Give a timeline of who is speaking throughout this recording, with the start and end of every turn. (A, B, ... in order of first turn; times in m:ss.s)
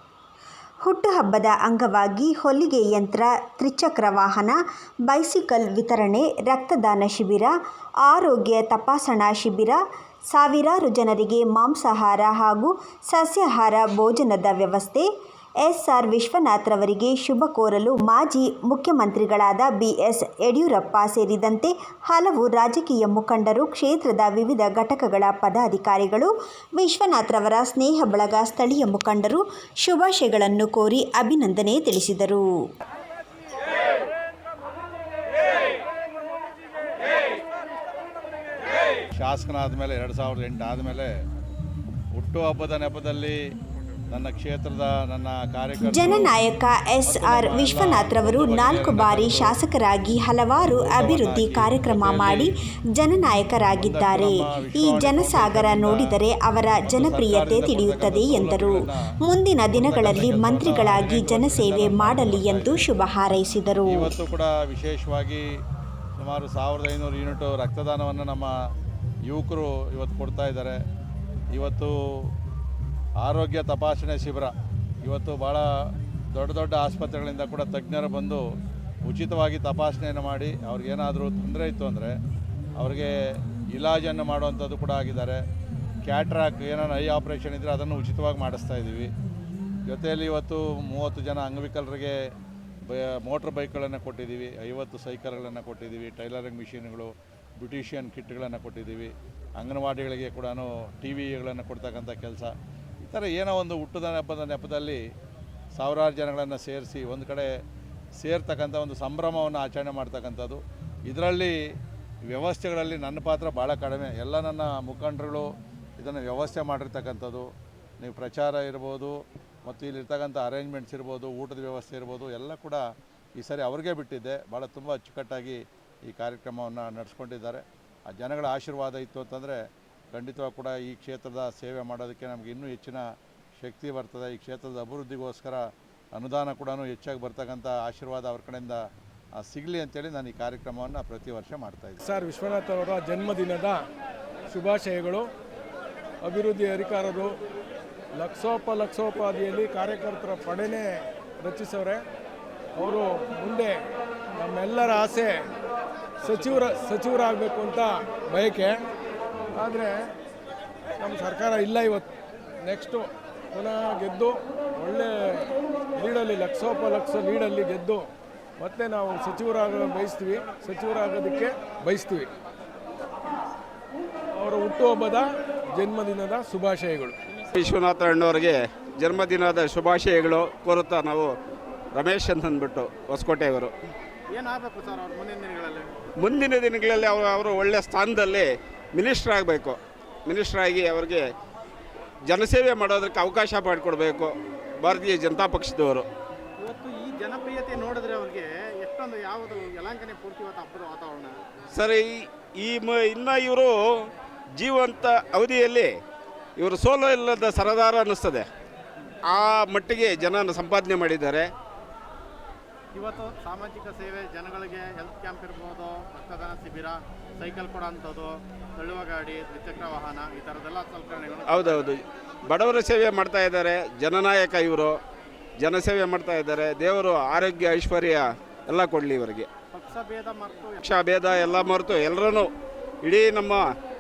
0:00.8-0:09.8 A
0:10.3-0:15.1 A
0:15.6-0:32.5 A
0:39.2-0:41.1 B
0:42.1-0:43.4 B
0:44.1-0:46.4 B
0:45.8-1:04.1 A
0:47.0-0:49.6 B
0:50.6-0:52.5 B
0:53.8-0:56.2 B
0:56.8-0:59.0 B
0:59.7-1:02.9 B
1:03.9-1:05.4 B
1:06.2-1:08.5 B
1:09.3-1:10.8 B
1:11.5-1:12.3 B
1:13.2-1:15.6 B
1:16.3-1:18.4 B
1:19.0-1:22.2 B
1:22.8-1:23.1 B
1:23.7-1:25.4 B
1:26.0-1:29.1 B
1:29.9-1:32.2 B
1:32.9-1:45.0 B
1:45.8-1:47.5 B
1:48.2-1:51.6 B
1:52.3-1:57.5 B
1:58.0-2:02.8 B
2:03.4-2:09.6 B
2:10.1-2:13.0 B
2:13.6-2:18.8 B
2:19.4-2:22.0 B
2:22.0-2:23.8 C
2:24.5-2:25.3 C
2:26.2-2:27.3 C
2:28.2-2:32.0 C
2:32.8-2:33.8 C
2:34.4-2:35.5 C
2:36.2-2:38.8 C
2:39.6-2:40.0 C
2:41.0-2:42.1 C
2:42.6-2:48.1 C
2:48.6-2:52.3 C
2:54.4-2:57.2 C
2:57.5-3:01.3 D
3:01.9-3:03.7 D
3:04.3-3:06.0 E
3:06.2-3:11.2 D
3:12.3-3:16.1 D
3:16.6-3:21.4 E
3:21.7-3:25.9 D
3:26.6-3:28.5 D
3:29.3-3:31.5 D
3:32.9-3:41.9 E
3:41.5-3:45.0 D
3:45.6-3:49.5 D
3:49.7-3:50.9 E
3:50.8-3:52.5 D
3:53.0-3:53.6 D